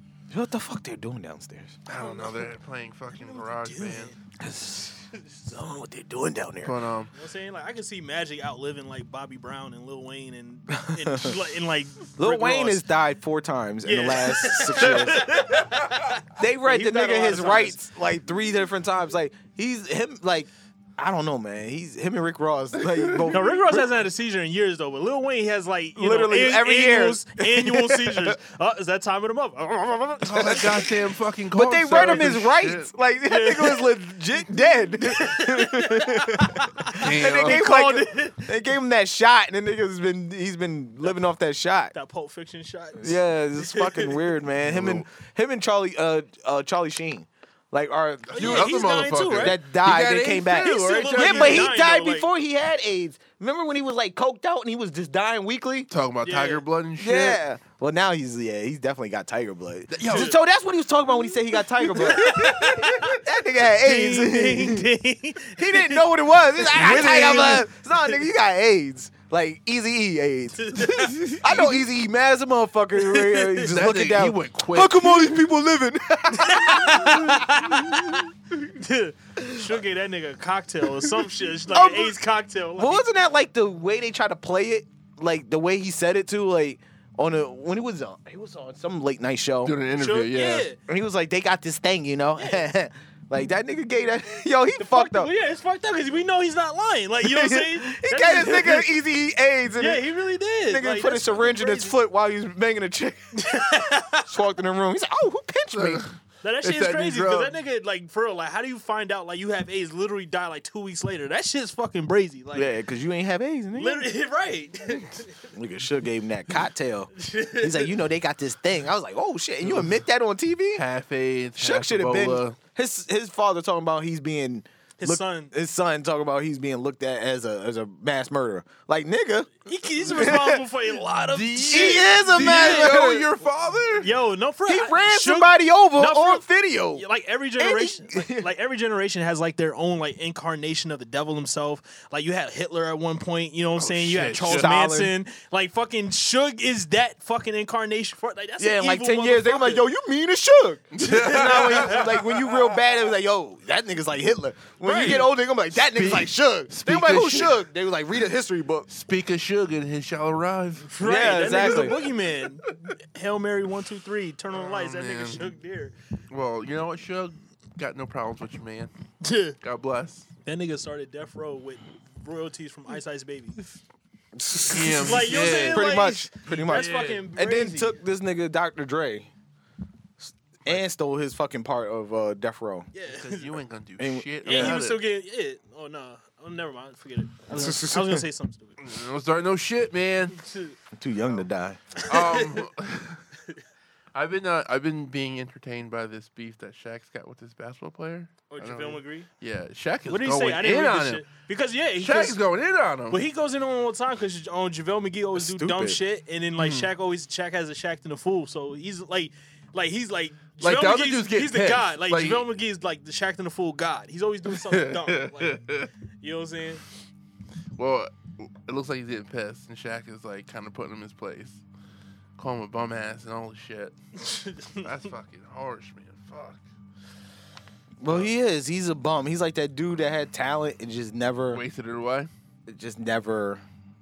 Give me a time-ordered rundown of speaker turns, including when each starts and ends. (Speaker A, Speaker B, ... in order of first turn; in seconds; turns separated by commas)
Speaker A: 0.3-1.8, Speaker B: 1.9-4.1, Speaker C: 2.0-2.5, Speaker C: 3.2-4.2, Speaker A: 4.4-6.8, Speaker B: 6.6-7.1, Speaker C: 7.1-12.8, Speaker A: 10.8-11.4, Speaker A: 12.2-15.3, Speaker C: 13.8-17.8, Speaker A: 16.4-23.9, Speaker B: 22.8-23.4, Speaker C: 23.3-30.7, Speaker A: 26.0-28.4, Speaker B: 30.2-32.9, Speaker A: 30.3-30.9, Speaker A: 31.5-41.9, Speaker C: 31.9-32.2, Speaker C: 33.2-33.9, Speaker C: 35.0-38.5, Speaker B: 36.9-37.7, Speaker C: 41.9-44.3, Speaker A: 43.0-55.9, Speaker B: 44.6-45.0, Speaker C: 48.3-49.6, Speaker B: 48.3-51.8, Speaker C: 50.6-52.3, Speaker B: 55.9-57.4, Speaker C: 56.2-56.6, Speaker A: 57.0-64.9, Speaker B: 59.9-60.4, Speaker C: 60.0-60.3, Speaker C: 61.8-63.2, Speaker C: 63.8-67.6, Speaker A: 65.5-78.3, Speaker B: 66.7-67.7, Speaker C: 70.6-71.4, Speaker B: 70.8-71.5, Speaker C: 73.0-73.6, Speaker B: 73.6-75.4, Speaker C: 76.3-83.1, Speaker A: 81.7-82.2, Speaker A: 82.8-89.8, Speaker B: 89.6-90.7, Speaker C: 90.0-90.8, Speaker A: 90.9-95.3, Speaker C: 92.4-92.7, Speaker C: 94.8-99.0, Speaker A: 97.2-100.1, Speaker C: 99.8-102.0, Speaker A: 100.6-103.5, Speaker C: 103.3-104.3, Speaker A: 104.3-106.0, Speaker B: 105.7-107.6, Speaker C: 106.4-112.7, Speaker A: 112.5-114.1, Speaker C: 113.8-115.5, Speaker A: 115.5-120.8, Speaker C: 117.2-117.9, Speaker B: 119.6-119.9, Speaker B: 120.8-122.6, Speaker A: 121.6-129.5, Speaker C: 125.0-125.5, Speaker C: 129.7-133.0, Speaker A: 130.1-130.6, Speaker B: 131.3-134.1, Speaker A: 131.6-133.3, Speaker C: 134.0-149.9, Speaker A: 134.7-137.0, Speaker A: 137.6-138.5, Speaker B: 143.8-144.7, Speaker A: 144.4-145.1, Speaker A: 148.6-158.9, Speaker B: 150.9-152.5, Speaker C: 151.0-152.0, Speaker C: 154.8-155.3, Speaker B: 155.8-157.7, Speaker B: 158.9-161.9, Speaker C: 160.9-165.9, Speaker A: 161.0-162.0, Speaker B: 164.5-165.5, Speaker B: 166.3-168.9, Speaker C: 169.2-169.6, Speaker B: 169.6-170.3, Speaker C: 170.4-173.8, Speaker A: 174.3-179.3, Speaker B: 174.7-175.9, Speaker C: 174.9-177.9, Speaker B: 176.5-177.2, Speaker A: 180.2-182.9, Speaker C: 182.9-183.6, Speaker B: 183.1-185.0, Speaker A: 184.0-184.8, Speaker C: 184.4-188.8, Speaker A: 187.5-188.2, Speaker B: 188.8-190.4, Speaker C: 190.4-190.8, Speaker A: 191.0-191.8, Speaker C: 192.0-192.5, Speaker B: 192.0-193.2, Speaker B: 194.1-201.2, Speaker C: 198.5-199.3, Speaker C: 200.1-202.4, Speaker B: 202.0-203.2, Speaker C: 203.1-215.6, Speaker A: 205.4-206.0, Speaker B: 206.6-206.9, Speaker B: 210.6-212.5, Speaker B: 214.5-215.9, Speaker C: 216.2-216.8, Speaker B: 217.8-221.6, Speaker B: 222.4-223.9, Speaker C: 224.2-224.8, Speaker B: 224.7-226.6, Speaker A: 228.0-231.6, Speaker B: 228.1-228.3, Speaker B: 231.5-232.3, Speaker A: 232.7-233.6